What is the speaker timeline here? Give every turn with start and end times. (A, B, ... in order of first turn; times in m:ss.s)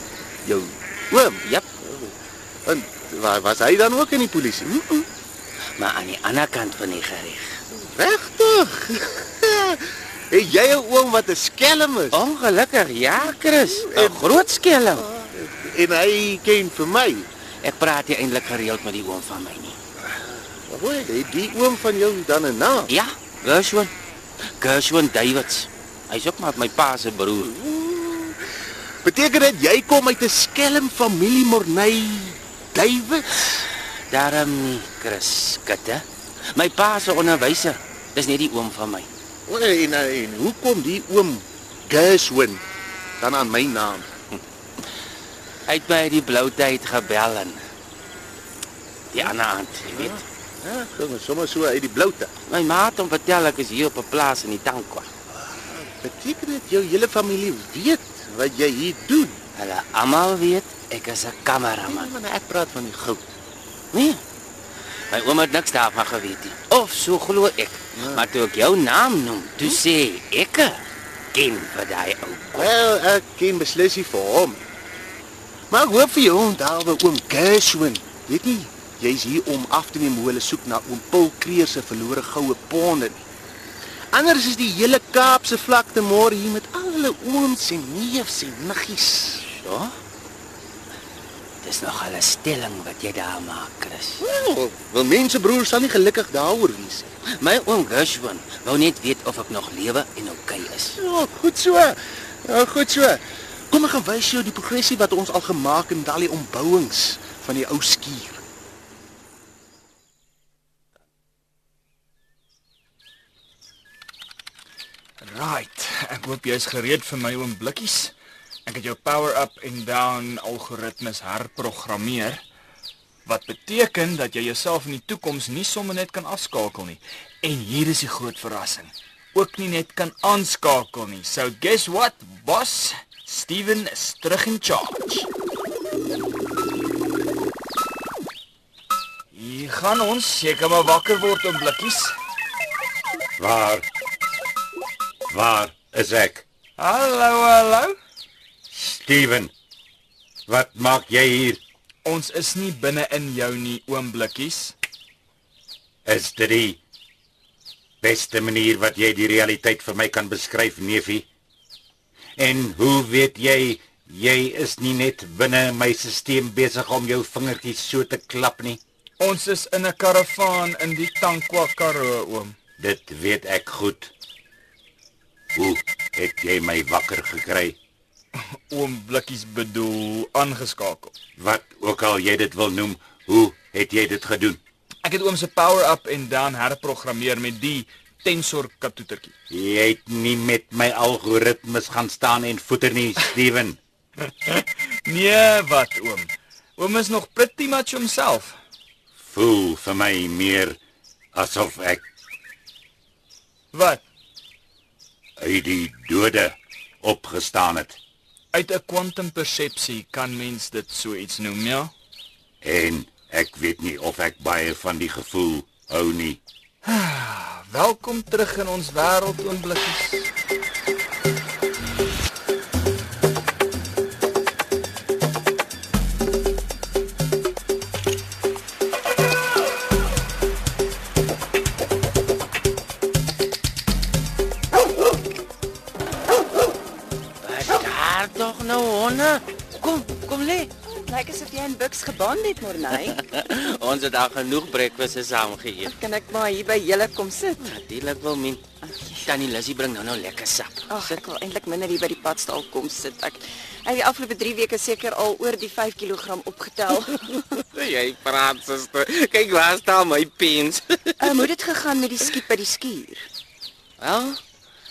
0:00.4-0:02.1 A
0:02.6-0:04.7 A
0:04.7-0:05.1 B
0:05.8-0:07.5 B
0:07.7-0:12.2 A
0:12.1-0:15.1 B
0:13.6-0:17.3 A
0:17.6-0:19.8 B
0:20.1-0:22.9 A
0:22.9-0:23.9 B
0:24.6-0:27.5 B
0:27.4-0:28.4 A
0:29.0-0:33.4 A
0:34.1-0:39.1 B
0:39.5-0:42.6 A
0:43.2-0:44.1 A
0:45.7-0:47.6 B
0:49.1-0:50.2 B
0:49.9-0:52.3 A
0:52.5-0:55.1 B
0:55.3-0:59.4 A
0:59.6-1:02.1 B
1:01.8-1:03.3 A
1:03.9-1:04.2 B
1:05.1-1:10.8 B
1:08.0-1:08.2 A
1:11.3-1:12.7 B
1:12.5-1:14.6 A
1:15.7-1:23.2 A
1:24.1-1:29.4 A
1:29.6-1:30.0 B
1:31.6-1:34.2 B
1:34.2-1:37.1 A
1:37.4-1:41.0 B
1:41.0-1:48.4 A
1:55.2-1:58.1 C
1:58.6-2:02.4 C
2:03.2-2:15.3 C
2:19.3-2:22.1 C
2:23.4-2:23.8 D
2:25.3-2:26.4 D
2:26.8-2:27.9 C
2:28.7-2:29.5 D
2:30.5-2:31.6 D
2:32.0-2:34.7 C
2:36.0-2:36.8 D
2:38.0-2:41.3 D
2:42.4-2:48.8 D
2:49.2-2:52.5 C
2:52.8-2:54.1 D
2:55.6-2:57.8 D
2:58.4-3:01.1 C
3:01.4-3:04.6 D
3:05.0-3:09.3 C
3:09.5-3:13.8 D
3:14.4-3:18.6 C
3:19.2-3:20.8 D
3:21.3-3:22.0 D
3:23.7-3:24.0 C
3:25.4-3:28.0 D
3:28.5-3:31.9 C
3:32.6-3:36.4 D
3:36.8-3:40.3 C
3:57.4-4:00.7 B
4:00.8-4:03.2 E
4:03.2-4:05.9 B
4:05.8-4:07.7 E
4:07.6-4:08.6 B
4:08.8-4:09.3 E
4:09.2-4:11.2 B
4:10.9-4:17.3 E
4:17.5-4:21.2 B
4:21.2-4:23.2 E
4:24.0-4:24.4 B